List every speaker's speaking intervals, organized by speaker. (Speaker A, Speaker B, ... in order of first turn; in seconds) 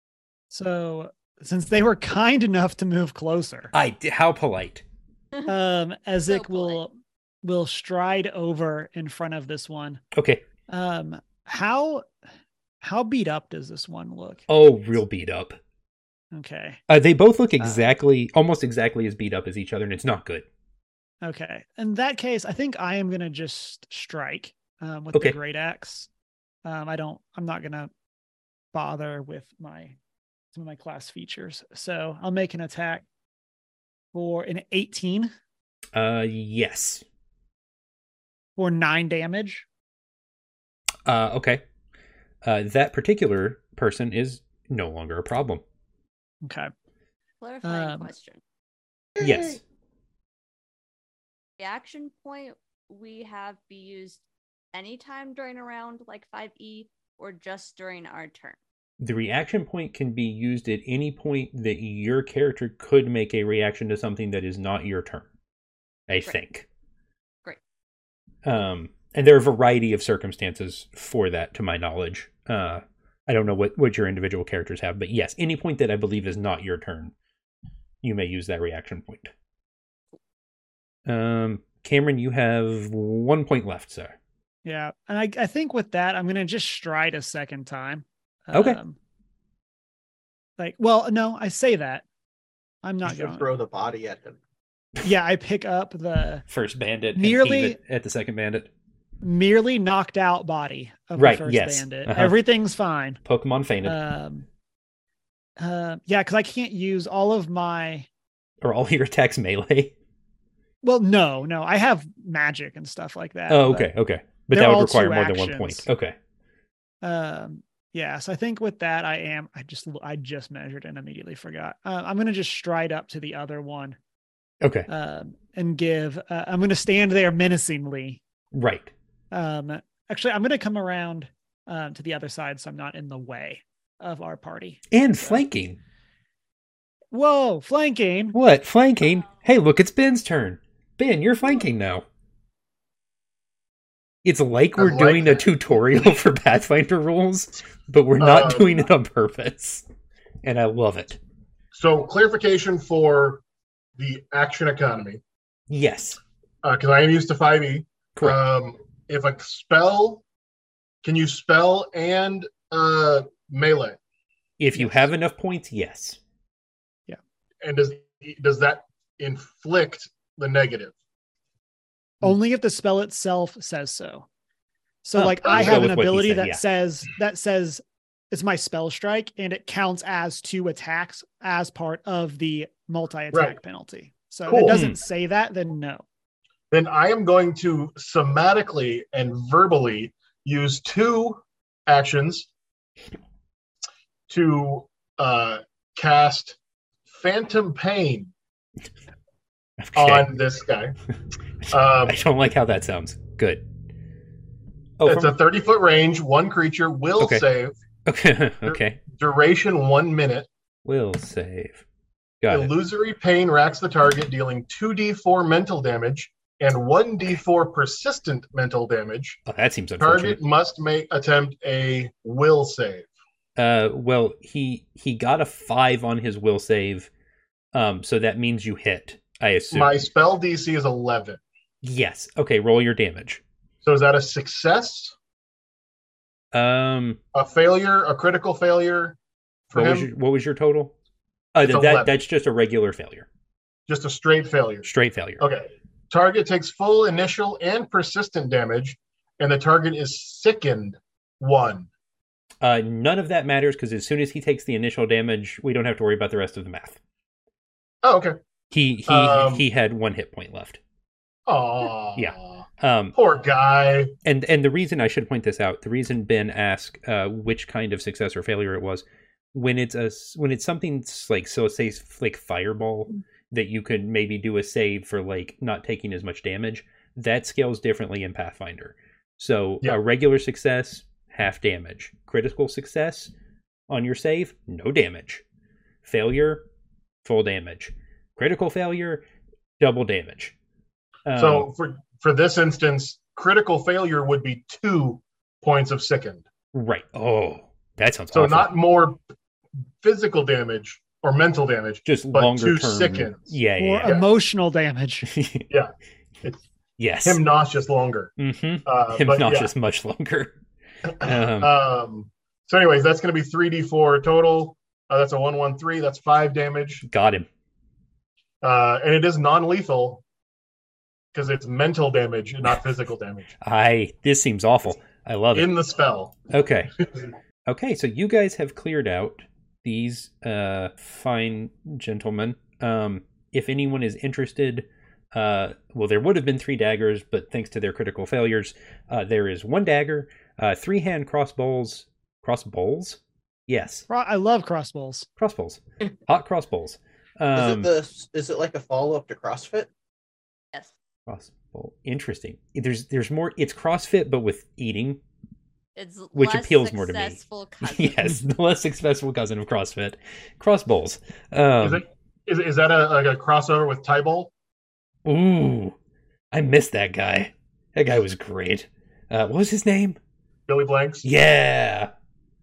Speaker A: 0.5-3.7, 5.5-6.9, 7.4-10.0, 10.7-12.1, 12.8-14.4, 16.3-16.8, 21.2-26.1, 26.6-27.9, 28.7-30.0, 30.5-33.0, 34.1-35.3, 38.6-39.6, 46.4-46.7, 47.6-48.1, 84.6-89.0, 90.6-92.0, 92.8-93.5, 95.0-96.4, 97.2-97.8, 99.2-103.2, 103.8-104.5, 105.6-108.1, 110.8-113.9, 114.5-115.9, 117.0-124.0, 124.9-128.2, 129.3-135.4, 137.1-138.3, 164.7-165.1, 172.2-174.2, 175.0-186.0, 303.8-305.3, 344.1-345.3
Speaker B: 3.7-4.8, 10.1-10.4, 14.5-15.6, 16.9-20.4, 35.9-37.0, 41.0-41.6, 42.4-45.6, 49.2-49.6, 59.0-65.2, 66.1-66.7, 68.4-77.1, 78.0-79.3, 81.0-84.1, 88.5-88.8, 96.5-98.7, 101.2-102.4, 103.2-104.0, 108.6-109.9, 113.5-116.1, 124.6-124.9, 128.5-128.9, 134.9-135.8, 138.3-142.0, 144.2-149.8, 150.4-151.2, 155.7-156.2, 164.6-166.2, 175.2-176.6, 184.7-185.0, 199.8-200.3, 202.0-203.6, 205.0-205.3, 207.2-207.4, 208.1-209.0, 210.8-211.8, 212.4-212.7, 219.5-220.4, 223.6-227.1, 227.7-230.1, 231.8-233.4, 236.5-237.2, 239.7-240.9, 241.5-243.2, 244.8-245.4, 252.6-257.0, 258.7-260.8, 262.1-263.1, 264.2-283.3, 283.9-285.4, 286.0-286.6, 287.2-289.2, 289.8-290.5, 291.2-291.7, 296.7-298.7, 302.1-304.2, 305.3-305.6, 307.0-307.4, 308.4-310.5, 311.2-311.7, 317.1-317.5, 323.6-325.7, 326.5-326.9, 327.6-344.1, 345.4-347.9, 351.3-355.2, 356.3-362.0, 365.2-365.9, 366.5-370.2, 371.2-372.1
Speaker C: 6.3-6.8, 47.4-48.4, 51.6-54.2, 54.7-58.6, 355.9-358.4
Speaker D: 49.2-49.6, 93.0-94.4, 347.5-349.9
Speaker E: 144.8-145.5, 148.2-148.8, 151.7-153.4, 154.0-155.2, 156.6-160.2, 161.0-164.0, 167.6-170.9, 184.5-184.8, 186.7-192.5, 194.3-196.6, 197.1-198.3, 199.9-200.9, 201.7-202.2, 205.1-207.7, 208.7-210.5, 212.5-219.4, 220.0-223.1, 229.7-231.4, 233.8-235.1, 237.3-239.2, 239.7-240.1, 241.6-242.1, 243.9-244.9, 245.4-251.9, 258.0-258.4, 259.1-259.6, 261.5-262.6, 263.1-264.1, 291.4-296.4, 298.3-299.2, 300.0-304.3, 305.7-306.6, 307.2-308.3, 308.9-309.7, 311.2-317.0, 318.6-320.2, 321.3-323.5, 325.5-326.4, 361.8-364.5, 370.7-371.2